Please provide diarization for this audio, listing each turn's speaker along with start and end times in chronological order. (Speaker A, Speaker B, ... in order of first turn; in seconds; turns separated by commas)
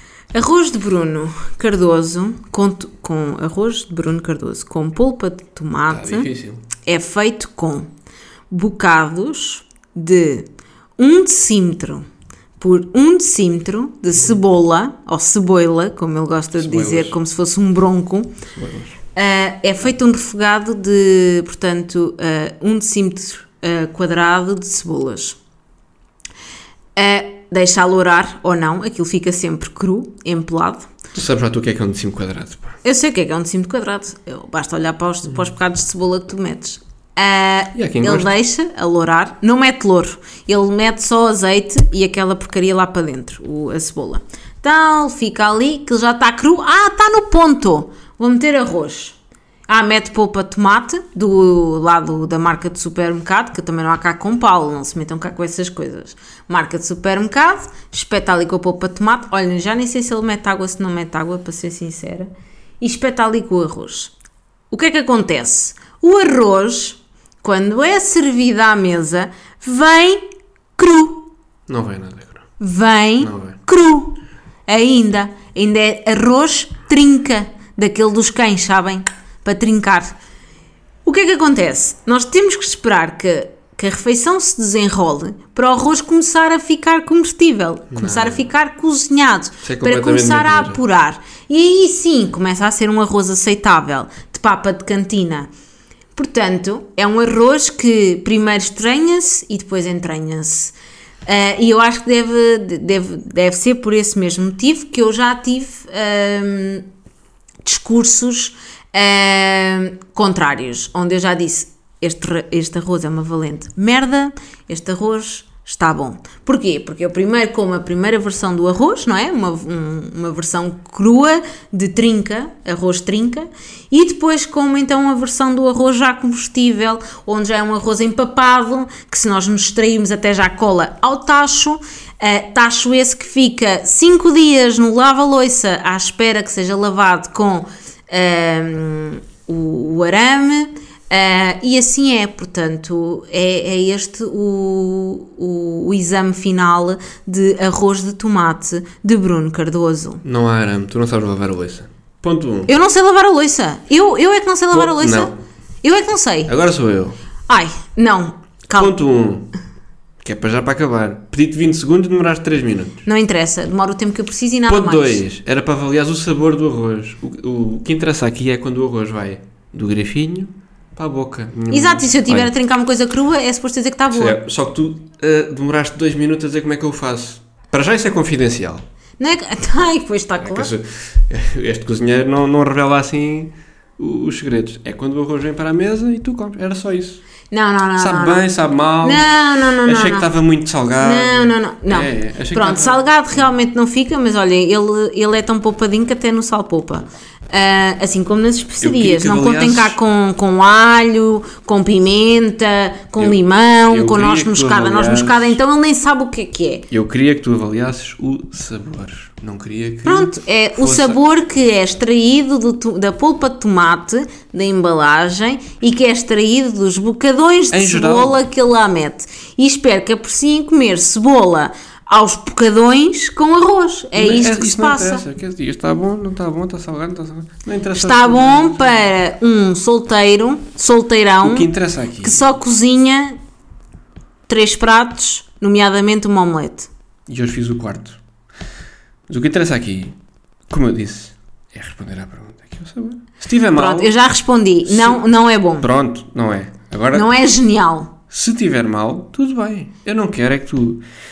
Speaker A: 0.3-6.3, Speaker B: 5.9-6.6, Speaker A: 6.8-7.9, Speaker A: 8.5-10.5, Speaker A: 11.0-12.1, Speaker A: 12.6-18.3, Speaker B: 16.6-17.2, Speaker B: 18.5-18.9, Speaker A: 19.1-25.4, Speaker A: 26.9-30.9, Speaker B: 31.1-32.8, Speaker A: 32.8-49.1, Speaker B: 37.7-38.3, Speaker A: 49.7-62.3, Speaker A: 62.8-64.1, Speaker A: 64.7-70.2, Speaker A: 70.8-71.2, Speaker B: 71.7-72.4, Speaker A: 72.6-80.2, Speaker B: 73.2-73.6, Speaker A: 81.0-95.5, Speaker B: 87.9-88.5, Speaker B: 89.6-90.8, Speaker A: 96.2-100.7, Speaker A: 101.2-106.9, Speaker A: 107.6-150.2, Speaker B: 150.2-152.7, Speaker A: 152.7-155.3, Speaker B: 154.7-155.3, Speaker A: 155.8-156.5, Speaker B: 156.5-157.2, Speaker A: 157.5-158.9, Speaker B: 158.7-159.5, Speaker B: 160.2-163.0, Speaker A: 163.1-165.2, Speaker B: 164.7-172.5, Speaker A: 171.7-174.4, Speaker B: 174.1-178.8, Speaker A: 179.2-180.7, Speaker B: 180.4-187.2, Speaker A: 187.5-188.5, Speaker B: 188.0-193.1, Speaker A: 189.0-190.3, Speaker A: 191.0-206.9, Speaker B: 198.8-200.0, Speaker B: 203.2-205.6, Speaker B: 206.9-211.2, Speaker A: 210.0-225.2, Speaker B: 217.7-218.4, Speaker B: 224.1-229.0, Speaker A: 227.9-231.7, Speaker B: 231.4-232.4, Speaker A: 232.2-233.4, Speaker A: 234.5-236.9, Speaker B: 237.3-238.2, Speaker B: 239.3-240.2, Speaker B: 240.7-244.1, Speaker A: 243.7-245.9, Speaker B: 244.9-245.2, Speaker B: 245.8-247.3, Speaker A: 247.1-248.1, Speaker B: 248.3-251.0